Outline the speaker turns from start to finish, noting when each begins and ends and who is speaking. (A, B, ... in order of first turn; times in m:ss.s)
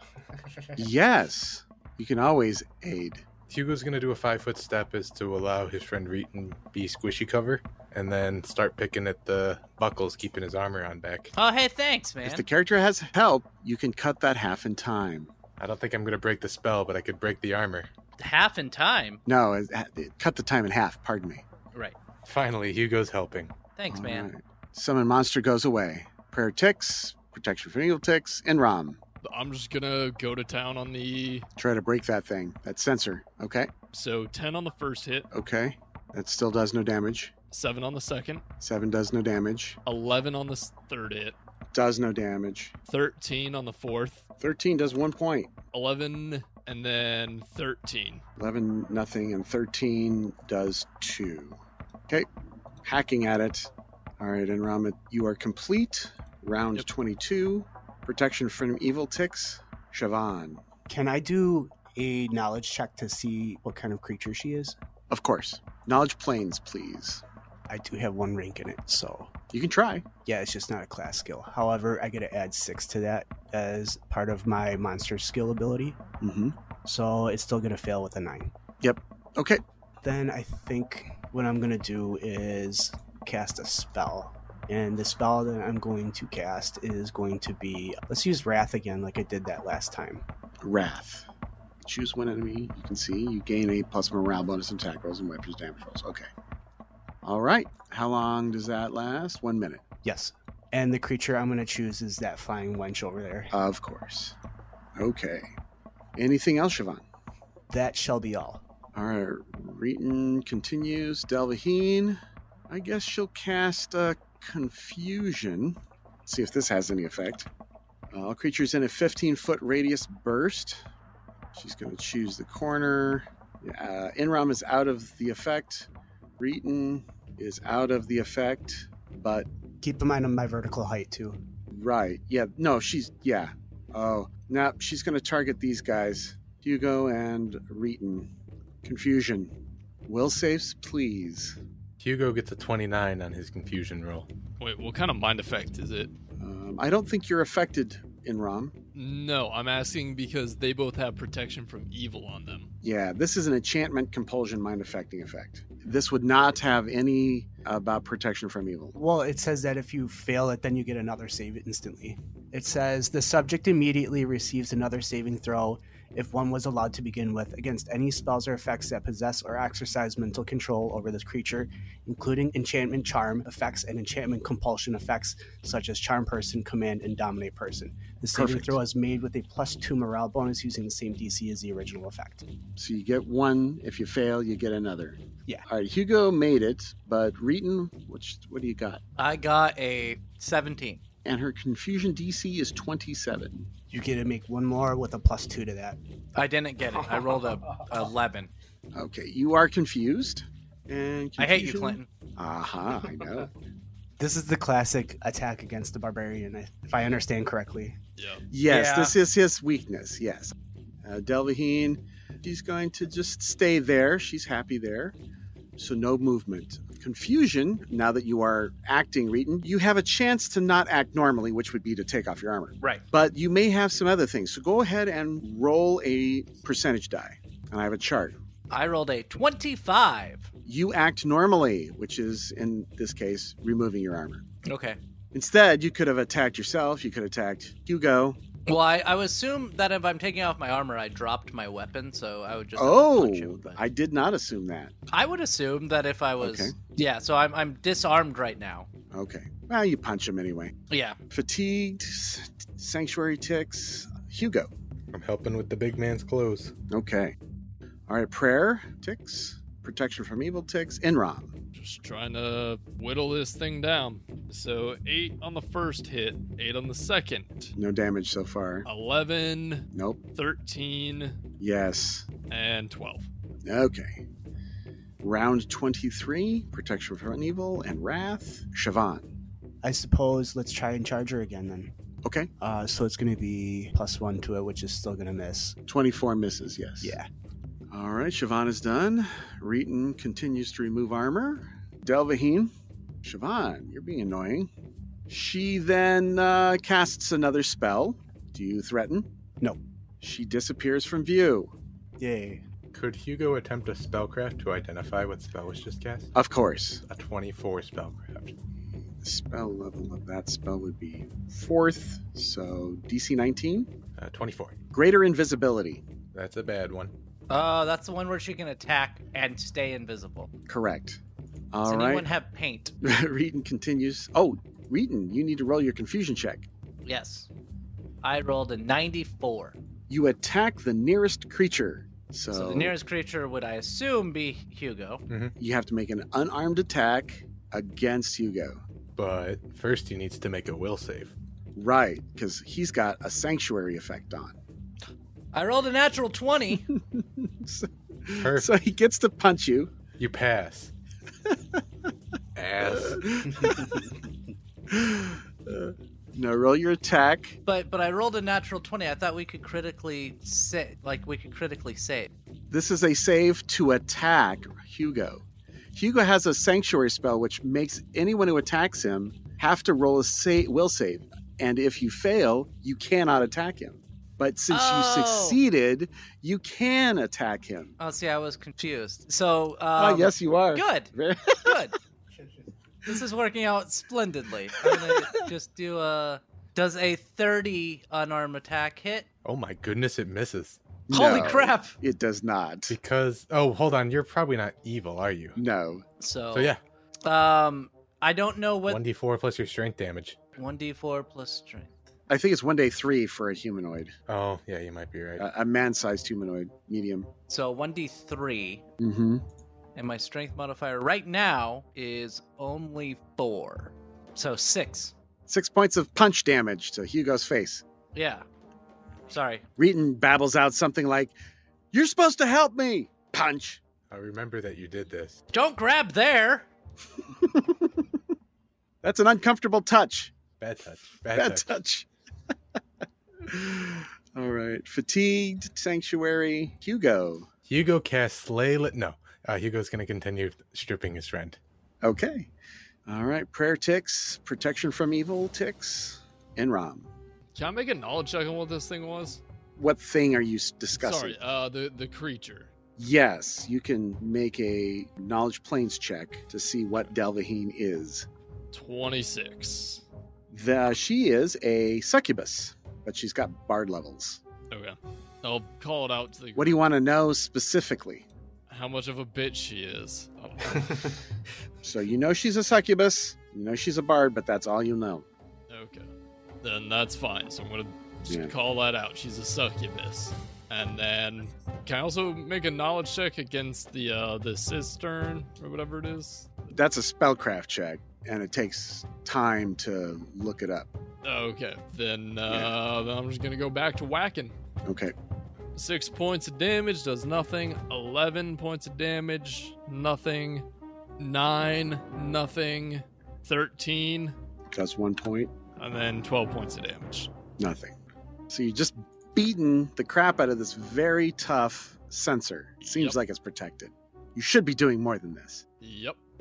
0:00.8-0:03.2 A
0:03.5-0:11.3 B
0:11.4-0:12.4 C
0:12.2-0:15.3 A
0:15.6-0:17.9 B
0:18.2-0:19.2 C
0:19.3-0:21.4 A
0:22.2-0:23.5 B
0:23.8-0:24.3 C
0:23.9-0:29.0 A
0:29.2-0:31.5 D
0:31.6-0:33.7 A
0:33.9-0:35.3 D
0:35.3-0:37.3 A
0:37.5-0:38.4 D
0:38.6-0:39.8 A
0:39.9-0:41.4 D
0:41.7-0:42.7 A
0:42.9-0:44.3 D
0:44.4-0:45.5 A
0:45.7-0:48.2 D
0:48.4-0:52.3 A
0:52.8-1:00.6 A
1:00.9-1:04.8 E
1:05.1-1:07.2 A
1:07.7-1:09.3 E
1:09.5-1:10.1 A
1:10.2-1:16.0 E
1:16.2-1:16.6 A
1:16.8-1:18.5 E
1:18.8-1:19.6 A
1:20.0-1:30.2 E
1:30.6-1:31.3 A
1:31.8-1:36.3 A
1:37.2-1:39.8 A
1:40.0-1:43.5 E
1:43.5-1:44.4 A
1:45.0-1:45.5 A
1:46.2-1:47.0 A
1:47.7-1:48.6 E
1:48.9-1:57.5 A
1:58.1-2:00.8 A
2:01.6-2:09.5 A
2:09.8-2:11.4 E
2:11.7-2:18.3 A
2:18.8-2:19.5 A
2:20.1-2:21.6 A
2:22.0-2:24.3 B
2:24.6-2:26.1 D
2:26.4-2:28.8 A
2:28.9-2:32.7 D
2:32.8-2:39.0 A
2:38.9-3:02.4 E
2:58.3-2:58.8 A
3:02.8-3:09.0 A
3:09.2-3:11.0 C
3:11.2-3:13.7 A
3:13.9-3:16.0 E
3:16.4-3:18.5 C
3:18.9-3:23.5 A
3:21.4-3:22.1 C
3:24.2-3:28.0 E
3:28.2-3:28.4 D
3:28.5-3:35.2 A
3:28.7-3:29.2 C
3:35.8-3:48.4 A
3:48.7-3:50.5 C
3:50.6-3:54.4 A
3:54.6-3:55.0 C
3:55.3-3:58.4 A
3:58.6-4:03.8 C
4:02.8-4:04.9 A
4:05.1-4:08.9 C
4:06.4-4:06.8 A
4:09.1-4:10.7 A
4:10.9-4:11.2 C
4:11.3-4:14.7 A
4:15.1-4:16.7 B
4:16.9-4:17.4 A
4:18.1-4:21.5 A
4:21.8-4:27.7 D
4:27.8-4:28.9 A
4:28.8-4:31.4 D
4:29.9-4:30.2 A
4:31.6-4:32.3 A
4:32.5-4:33.3 D
4:33.6-4:34.2 A
4:35.2-4:39.3 A
4:39.8-4:41.9 E
4:42.2-4:42.5 A
4:42.6-4:45.8 E
4:45.9-4:47.2 A
4:47.0-4:47.3 E
4:47.9-4:52.7 A
4:53.2-4:54.7 A
4:55.3-4:59.3 A
5:00.2-5:01.7 A
5:02.2-5:02.6 E
5:02.9-5:06.3 B
5:06.4-5:07.0 A
5:07.1-5:08.5 B
5:09.2-5:13.9 A
5:14.2-5:14.8 B
5:14.9-5:16.0 A
5:16.3-5:17.1 B
5:17.5-5:20.5 C
5:20.7-5:21.2 A
5:21.7-5:22.3 A
5:21.8-5:22.9 C
5:23.0-5:26.7 A
5:27.0-5:27.5 C
5:28.2-5:29.8 C
5:30.1-5:32.9 A
5:32.5-5:35.2 C
5:35.3-5:35.5 B
5:35.6-5:38.8 A
5:39.2-5:41.3 B
5:41.8-5:44.6 A
5:45.5-5:46.9 C
5:46.9-5:49.9 A
5:48.4-5:48.7 B
5:50.2-5:50.9 B
5:51.5-5:51.8 A
5:52.6-5:53.2 B
5:52.8-5:54.2 A
5:54.9-5:57.6 A
5:57.6-6:02.3 C
6:02.7-6:17.9 A
6:14.7-6:15.6 C
6:18.0-6:22.0 C
6:20.0-6:21.9 A
6:23.0-6:29.3 C
6:24.9-6:25.2 A
6:29.4-6:30.8 B
6:31.1-6:33.0 A
6:31.1-6:32.0 C
6:32.9-6:35.6 B
6:35.6-6:36.0 A
6:36.2-6:39.0 C
6:36.5-6:36.8 B
6:38.9-6:40.4 B
6:40.6-6:42.0 C
6:42.3-6:44.1 A
6:44.3-6:45.4 B
6:45.4-6:47.3 A
6:47.5-6:48.8 C
6:49.0-6:49.4 A
6:49.9-6:55.1 C
6:55.5-6:57.8 A
6:58.1-6:58.4 C
6:59.3-6:59.6 C
6:59.8-7:01.4 A
7:01.9-7:03.8 A
7:04.1-7:05.4 B
7:05.5-7:06.7 C
7:07.4-7:07.9 A
7:09.0-7:10.3 A
7:10.6-7:11.7 B
7:11.4-7:12.1 A
7:13.4-7:17.5 A
7:17.7-7:21.6 B
7:22.0-7:22.5 A
7:23.1-7:27.1 A
7:27.6-7:29.4 D
7:29.8-7:31.4 A
7:30.9-7:32.7 D
7:33.0-7:38.3 A
7:38.7-7:40.0 D
7:40.5-7:44.4 A
7:44.7-7:46.8 D
7:46.6-7:48.3 A
7:48.7-7:51.2 D
7:51.8-7:55.3 A
7:55.7-8:06.8 D
7:58.3-7:58.5 A
8:06.7-8:10.9 A
8:11.2-8:14.6 D
8:12.5-8:12.8 A
8:14.8-8:15.1 A
8:15.8-8:20.6 D
8:21.2-8:24.4 D
8:24.7-8:25.5 A
8:25.8-8:27.3 D
8:27.6-8:27.9 A
8:28.5-8:35.6 A
8:32.8-8:33.2 D
8:35.8-8:36.2 D